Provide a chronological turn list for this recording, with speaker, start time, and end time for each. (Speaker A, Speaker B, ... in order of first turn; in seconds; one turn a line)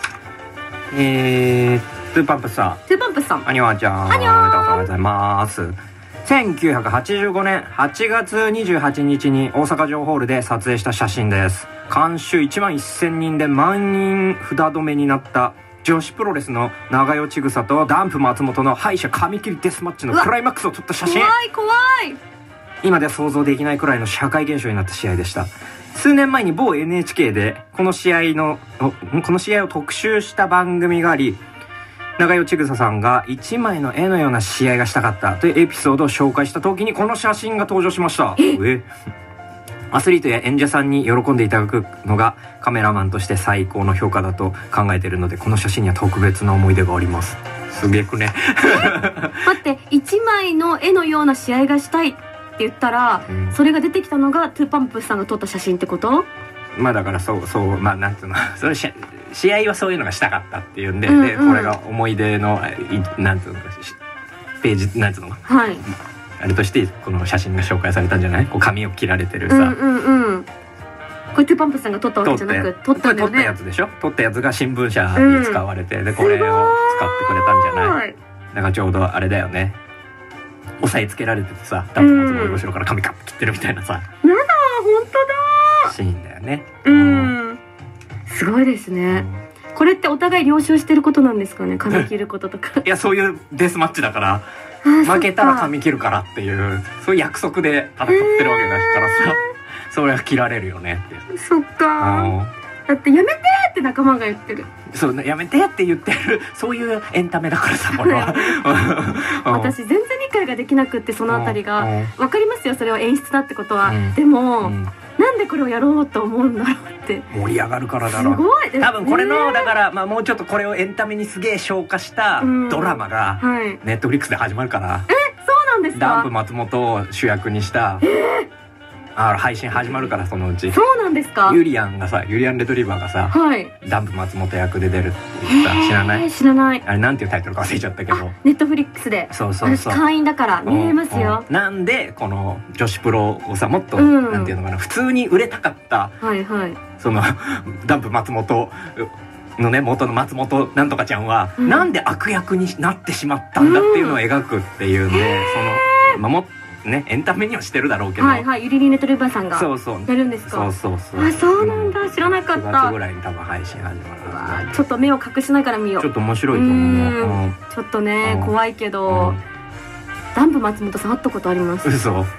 Speaker A: 0.9-2.8
Speaker B: 2.9-3.5
Speaker A: 3.4-21.3
Speaker B: 4.1-4.9
Speaker B: 21.0-22.2
Speaker A: 22.8-31.4
Speaker A: 32.2-38.9
Speaker A: 39.9-49.4
Speaker B: 48.6-56.3
Speaker A: 53.3-53.6
Speaker A: 56.8-64.0
Speaker B: 61.1-61.7
Speaker A: 64.6-65.4
Speaker B: 65.5-65.8
Speaker A: 66.4-69.8
Speaker B: 69.5-70.5
Speaker B: 71.3-73.5
Speaker A: 72.2-78.0
Speaker B: 75.2-75.6
Speaker B: 76.2-78.1
Speaker A: 78.5-79.8
Speaker A: 80.8-84.0
Speaker B: 82.0-82.6
Speaker B: 84.2-85.9
Speaker A: 85.8-87.3
Speaker B: 86.8-87.6
Speaker B: 88.3-92.8
Speaker A: 89.1-89.4
Speaker A: 92.8-94.4
Speaker B: 94.8-95.7
Speaker A: 95.0-101.2
Speaker B: 98.1-99.4
Speaker B: 101.3-102.3
Speaker A: 102.0-102.5
Speaker B: 102.9-104.7
Speaker A: 104.9-109.7
Speaker B: 107.9-117.3
Speaker A: 111.3-112.1
Speaker A: 113.8-114.9
Speaker A: 117.3-125.1
Speaker B: 118.1-119.7
Speaker B: 122.4-123.8
Speaker B: 125.1-126.3
Speaker A: 125.9-128.0
Speaker B: 128.0-128.5
Speaker A: 129.2-130.8
Speaker B: 129.8-130.1
Speaker B: 130.7-131.6
Speaker A: 131.4-136.2
Speaker B: 133.3-133.7
Speaker B: 135.4-136.8
Speaker A: 136.8-138.3
Speaker B: 138.1-141.4
Speaker A: 139.3-140.0
Speaker A: 140.7-146.2
Speaker B: 144.0-144.5
Speaker B: 146.2-146.8
Speaker A: 147.0-158.5
Speaker B: 151.6-151.9
Speaker B: 153.6-154.2
Speaker B: 155.1-156.2
Speaker B: 158.2-162.9
Speaker A: 159.5-164.8
Speaker B: 164.2-169.4
Speaker A: 166.0-167.6
Speaker A: 168.2-168.5
Speaker A: 169.1-169.4
Speaker B: 170.3-171.9
Speaker A: 171.8-172.3